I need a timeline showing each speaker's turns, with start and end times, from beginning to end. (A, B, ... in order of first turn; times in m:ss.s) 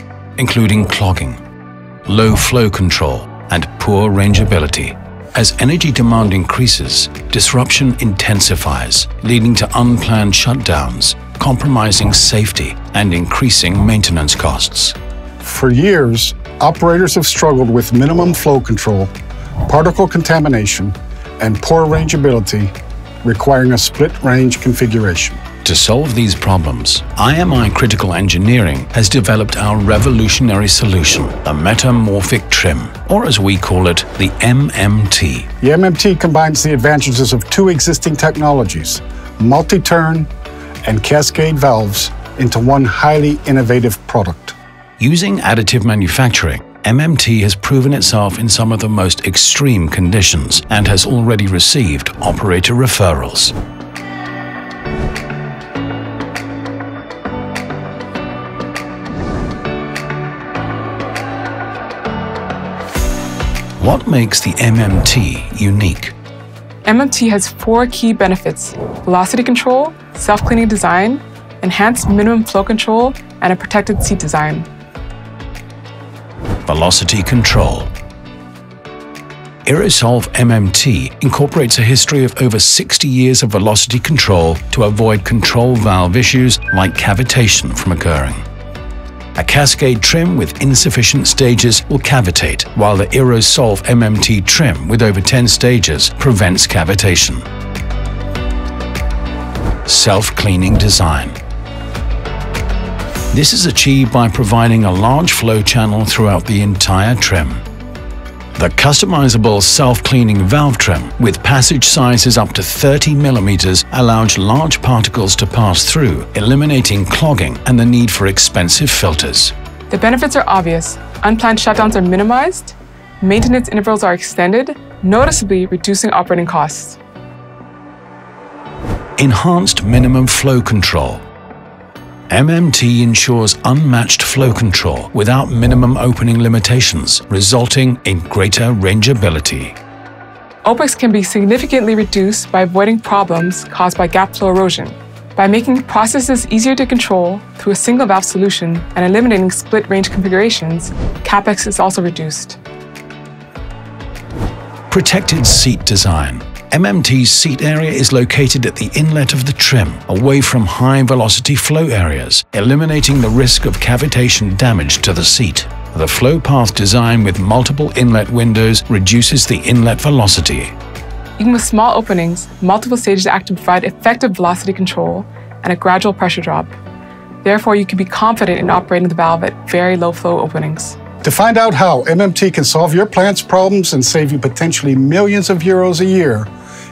0:00.4-0:01.4 A
0:02.0-0:15.0 A
0:15.4-0:19.1 B
0:19.6-0:25.4 B
0:25.6-0:35.5 A
0:35.6-0:40.3 B
0:40.8-0:44.6 B
0:45.0-0:53.5 A
1:03.8-1:06.1 A
1:06.8-1:14.7 C
1:16.6-1:17.9 A
1:19.7-1:28.4 A
1:29.3-1:37.4 A
1:39.8-1:41.4 A
1:43.3-1:47.6 A
1:48.6-1:59.5 A
1:59.9-2:07.0 C
2:09.2-2:11.2 A
2:12.3-2:19.8 A
2:20.6-2:32.6 C
2:34.9-2:50.7 A
2:51.4-2:56.8 C
2:57.4-3:01.0 C
3:01.2-3:06.5 B